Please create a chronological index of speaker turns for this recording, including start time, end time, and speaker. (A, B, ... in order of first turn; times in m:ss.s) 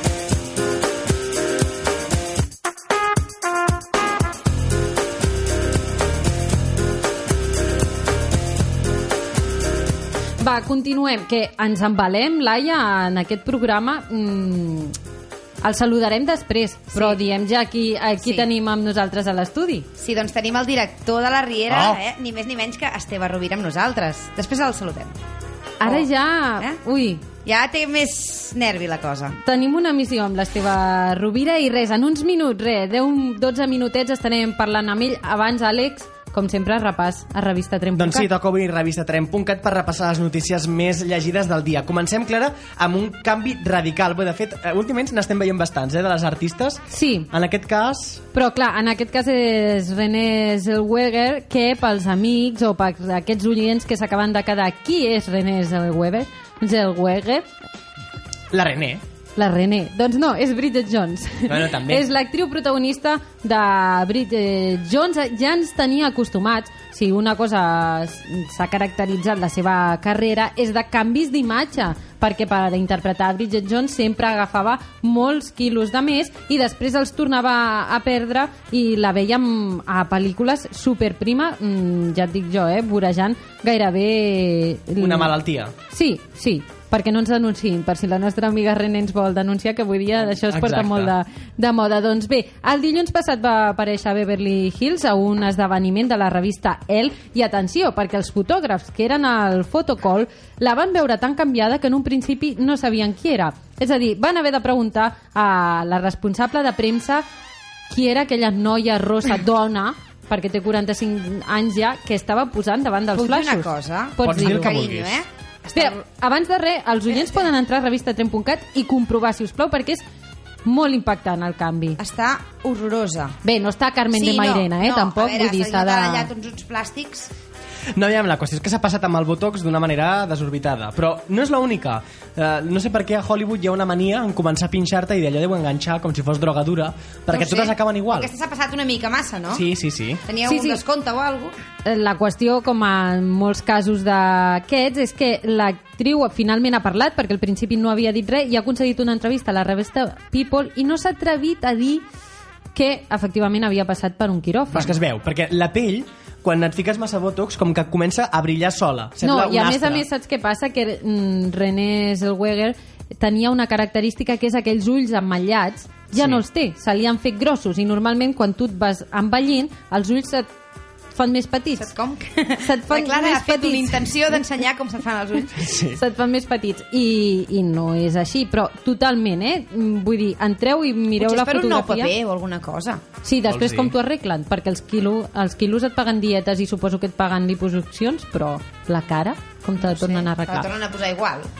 0:10.4-0:15.0 A
0:15.6-0:19.9 A
0:18.2-0:18.4 B
0:20.0-0:25.2 B
0:21.7-0:22.0 C
0:25.8-0:27.2 A
0:27.4-0:29.4 B
0:29.4-0:38.3 A
0:38.0-0:48.2 C
0:46.9-0:47.3 A
0:48.3-0:57.5 A
0:58.5-0:59.0 C
0:59.4-1:25.4 A
1:01.5-1:02.0 C
1:25.0-1:25.7 C
1:25.9-1:47.2 A
1:30.3-1:31.1 C
1:47.9-1:54.8 A
1:53.1-1:56.0 B
1:54.2-1:55.2 C
1:55.7-2:00.0 A
1:57.1-1:57.4 B
2:00.6-2:02.0 A
2:02.0-2:03.4 B
2:03.4-2:06.3 A
2:04.1-2:07.3 B
2:07.9-2:18.3 C
2:17.3-2:19.6 B
2:19.5-2:20.2 C
2:20.2-2:21.5 B
2:20.4-2:20.8 A
2:21.8-2:32.0 A
2:32.7-2:34.9 A
2:34.7-2:40.0 C
2:39.2-2:50.5 A
2:46.1-2:46.4 C
2:51.1-2:51.9 A
2:51.8-2:55.7 B
2:52.6-2:54.4 A
2:55.6-2:56.0 C
2:55.9-3:02.1 A
3:01.2-3:03.0 B
3:03.2-3:10.7 A
3:03.5-3:03.9 C
3:09.8-3:11.5 B